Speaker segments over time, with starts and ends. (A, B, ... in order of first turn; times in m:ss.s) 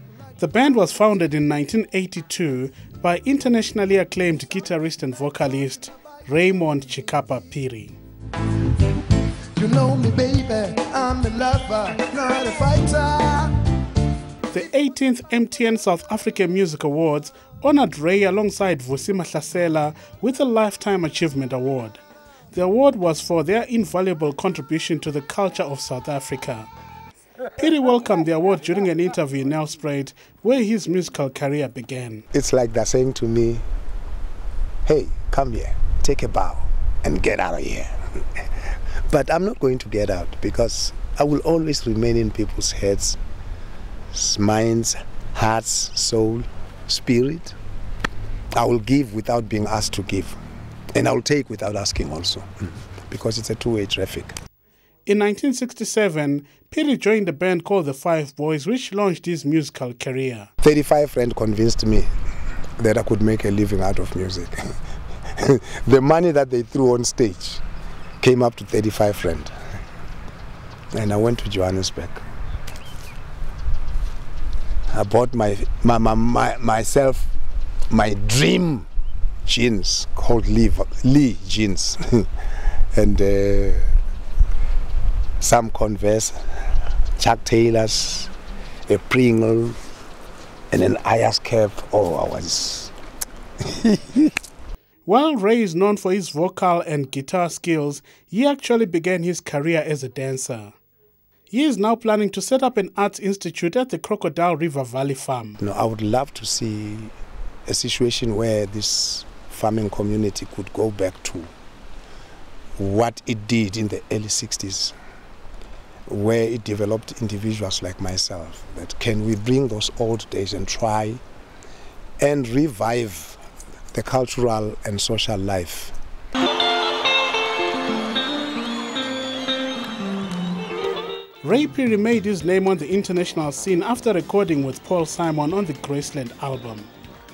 0:00.4-0:08.0 A
0:09.5-0:13.7 B
0:14.5-0:22.0 A
0:22.5-0:26.7 A
0:27.5-0:32.2 A
0:32.3-0:33.6 C
0:34.8-0:43.2 C
0:44.1-0:47.6 C
0:48.5-0:50.4 C
0:50.9-0:54.3 C
0:55.0-1:00.5 A
1:00.6-1:02.1 C
1:02.8-1:04.7 C
1:05.3-1:07.6 C
1:08.2-1:09.5 C
1:10.9-1:12.2 C
1:14.9-1:17.3 C
1:17.9-1:18.9 C
1:19.4-1:22.3 C
1:22.9-1:23.9 C
1:25.4-1:26.4 C
1:27.2-1:28.3 C
1:28.9-1:29.8 C
1:30.7-1:32.9 C
1:33.6-1:34.3 C
1:35.0-1:40.7 A
1:41.5-1:45.6 A
1:45.6-1:47.1 C
1:47.7-1:51.5 C
1:52.8-1:54.9 C
1:56.1-2:01.2 C
2:02.2-2:03.4 C
2:03.9-2:06.0 C
2:11.4-2:16.9 A